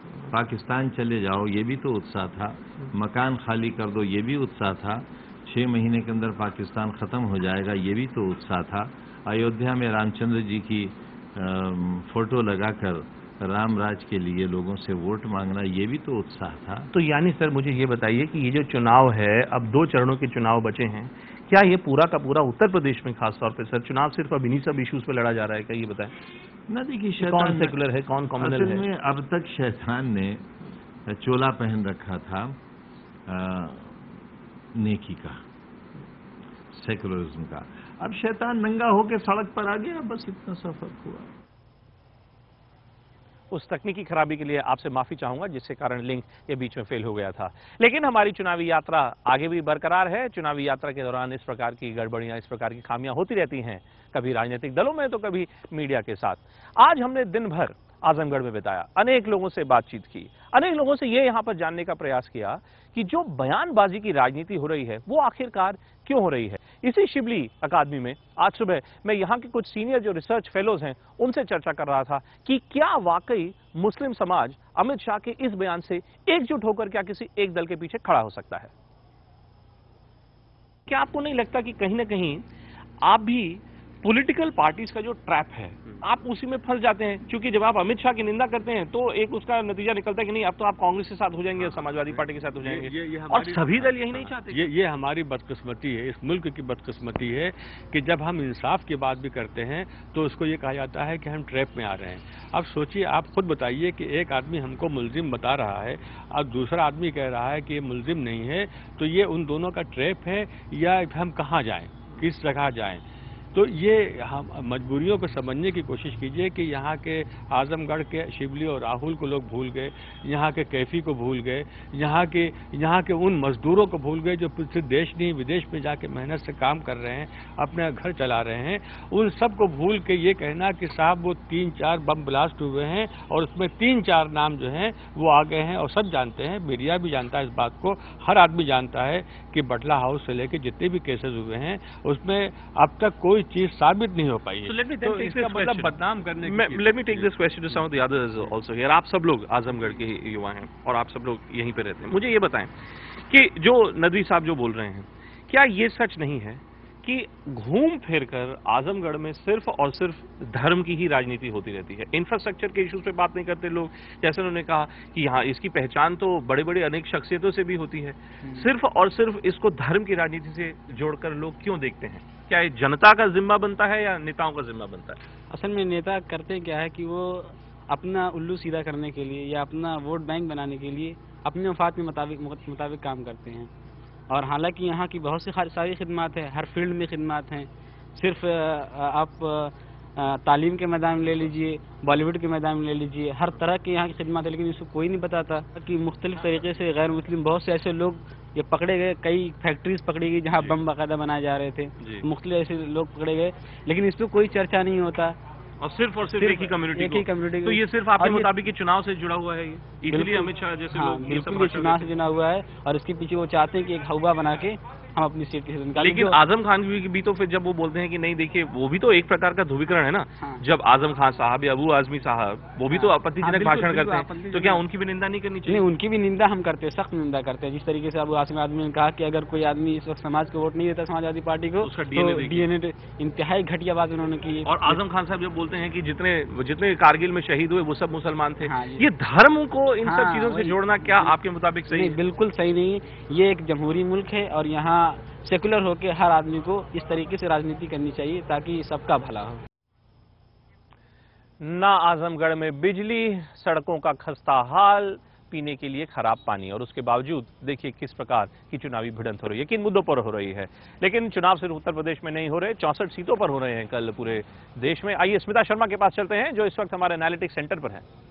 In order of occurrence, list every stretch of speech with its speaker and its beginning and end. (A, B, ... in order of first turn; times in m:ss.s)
0:00.3-0:16.9 A
0:16.9-0:26.1 B
0:26.7-0:27.8 A
0:27.2-0:28.9 B
0:28.4-0:30.5 A
0:31.1-0:32.6 A
0:33.3-0:34.1 A
0:34.8-0:35.4 A
0:36.8-0:41.3 A
0:43.5-1:18.7 B
1:20.9-1:22.5 B
1:23.0-1:34.7 B
1:31.6-1:53.0 C
1:53.5-2:27.8 C
2:24.6-2:55.2 B
2:55.5-3:03.7 D
3:04.3-3:25.4 D
3:20.5-3:20.8 B
3:22.0-3:22.3 B
3:25.8-3:32.2 B
3:26.3-3:28.5 D
3:30.1-3:36.3 D
3:36.0-3:45.9 B
3:42.9-3:44.8 D
3:45.7-3:55.0 D
3:51.8-3:52.8 B
3:54.6-4:02.2 B
3:58.7-3:59.0 D
4:00.0-4:01.3 D
4:01.9-4:09.6 D
4:11.6-4:28.0 B